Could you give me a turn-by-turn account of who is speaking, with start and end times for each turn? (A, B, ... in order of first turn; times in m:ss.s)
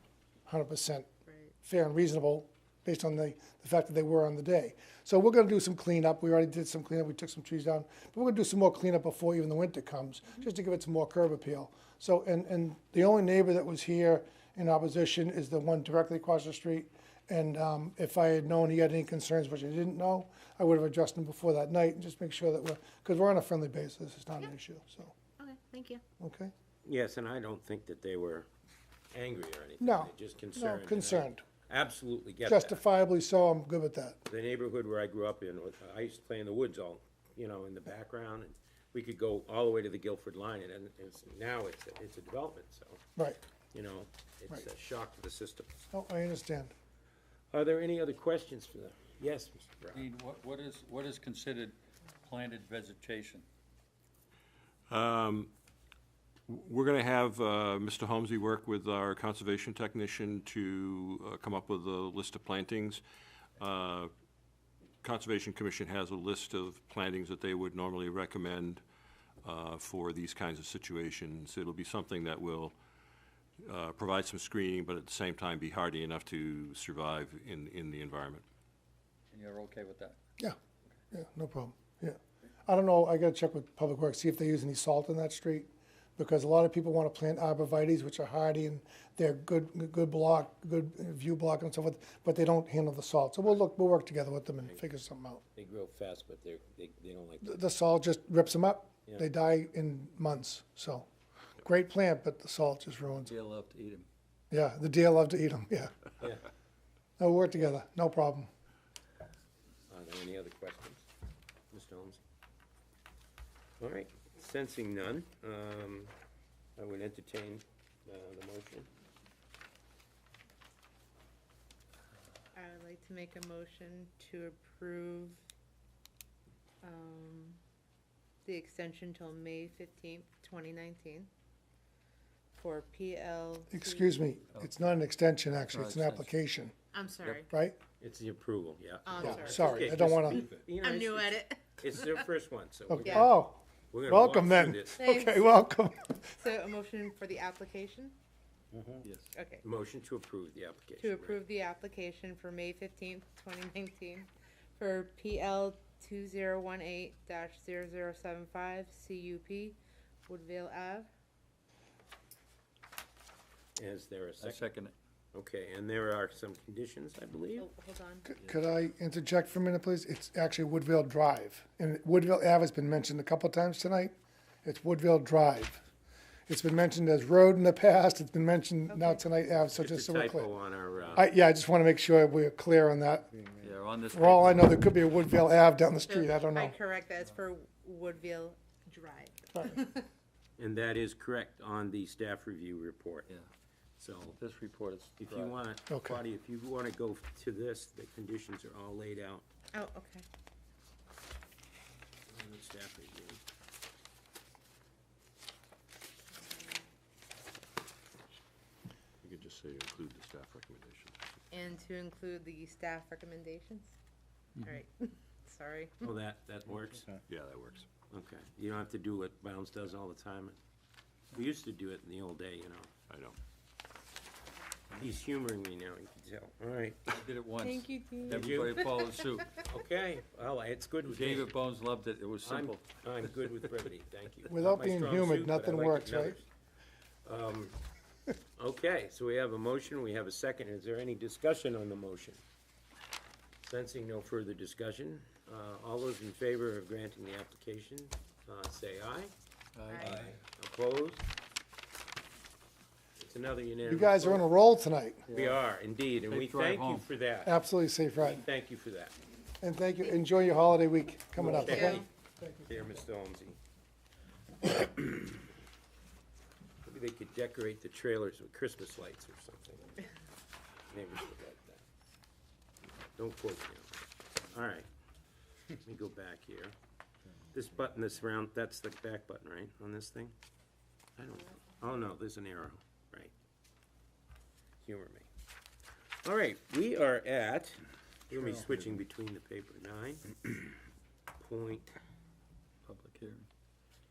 0:00.5-0:01.1 A
0:01.2-0:01.5 B
0:01.6-0:25.1 A
0:25.4-0:26.0 B
0:26.2-0:26.5 A
0:26.8-0:28.5 C
0:29.1-0:32.8 C
0:29.8-0:31.4 A
0:32.4-0:34.2 A
0:34.2-0:43.0 C
0:43.7-0:45.8 C
0:45.9-0:46.7 A
0:47.5-0:50.1 C
0:49.9-0:53.4 D
0:54.9-0:55.5 E
0:56.5-1:03.0 E
1:03.6-1:04.1 E
1:05.0-1:08.8 E
1:09.4-1:12.7 E
1:13.6-1:18.4 E
1:19.3-1:20.2 D
1:21.1-1:35.4 A
1:35.5-1:37.6 C
1:37.4-1:41.1 A
1:41.6-1:43.3 A
1:43.2-1:44.1 D
1:44.5-1:46.0 A
1:47.2-1:48.5 A
1:49.9-1:51.0 C
1:51.7-1:52.2 C
1:53.8-1:56.1 C
1:56.8-1:58.9 C
2:02.5-2:05.4 B
2:06.8-2:07.6 B
2:08.4-2:11.3 B
2:12.5-2:14.2 B
2:13.7-2:16.7 A
2:15.7-2:16.3 D
2:16.9-2:17.5 B
2:17.5-2:17.8 A
2:18.0-2:25.0 C
2:19.0-2:22.2 B
2:19.2-2:20.4 A
2:20.0-2:20.6 E
2:22.9-2:26.2 A
2:23.0-2:23.3 B
2:25.0-2:25.7 B
2:26.2-2:28.1 B
2:28.7-2:29.0 C
2:29.0-2:29.3 D
2:29.3-2:29.6 B
2:29.6-2:31.4 C
2:31.0-2:41.1 B
2:43.8-2:44.6 C
2:44.4-2:44.9 D
2:45.3-2:47.7 C
2:47.6-2:48.3 B
2:48.3-2:55.8 A
2:56.5-3:00.5 A
2:58.9-2:59.2 B
2:59.6-3:01.3 C
3:01.1-3:03.3 A
3:03.6-3:04.6 D
3:04.1-3:06.8 A
3:06.1-3:10.1 B
3:10.6-3:13.3 C
3:14.0-3:14.4 C
3:14.4-3:15.5 D
3:15.2-3:19.4 C
3:15.9-3:16.2 A
3:19.7-3:20.2 B
3:22.3-3:23.4 C
3:26.4-3:26.8 B
3:29.2-3:31.2 E
3:31.5-3:33.9 B
3:34.6-3:36.2 B
3:36.0-3:37.0 C
3:37.0-3:37.9 E
3:38.1-3:40.6 C
3:41.3-3:42.9 C
3:43.1-3:43.4 E
3:44.9-3:47.2 C
3:47.1-3:49.5 D
3:47.6-3:49.6 B
3:48.3-3:48.8 C
3:49.6-3:51.5 C
3:51.1-3:52.8 D
3:52.4-3:56.5 C
3:54.5-3:56.4 A
3:57.2-3:57.8 C
3:58.6-4:02.4 C
4:03.6-4:09.3 C
4:09.7-4:10.4 D
4:09.9-4:10.2 B
4:10.0-4:11.2 C
4:13.2-4:14.5 C
4:13.8-4:15.2 A
4:15.3-4:15.5 D
4:15.3-4:17.6 C
4:16.3-4:17.1 D
4:17.4-4:18.4 A
4:18.2-4:19.1 C
4:19.6-4:22.7 A
4:21.3-4:22.1 C
4:21.6-4:22.0 B
4:22.6-4:23.6 C
4:24.6-4:25.3 C
4:26.8-4:30.0 C
4:30.9-4:31.8 C
4:33.2-4:34.9 C
4:35.8-4:36.7 C
4:37.5-4:40.3 C
4:41.2-4:43.3 C
4:44.8-4:45.3 C
4:46.2-4:50.7 C
4:48.3-4:48.9 D
4:51.4-4:52.0 C
4:52.8-4:53.5 D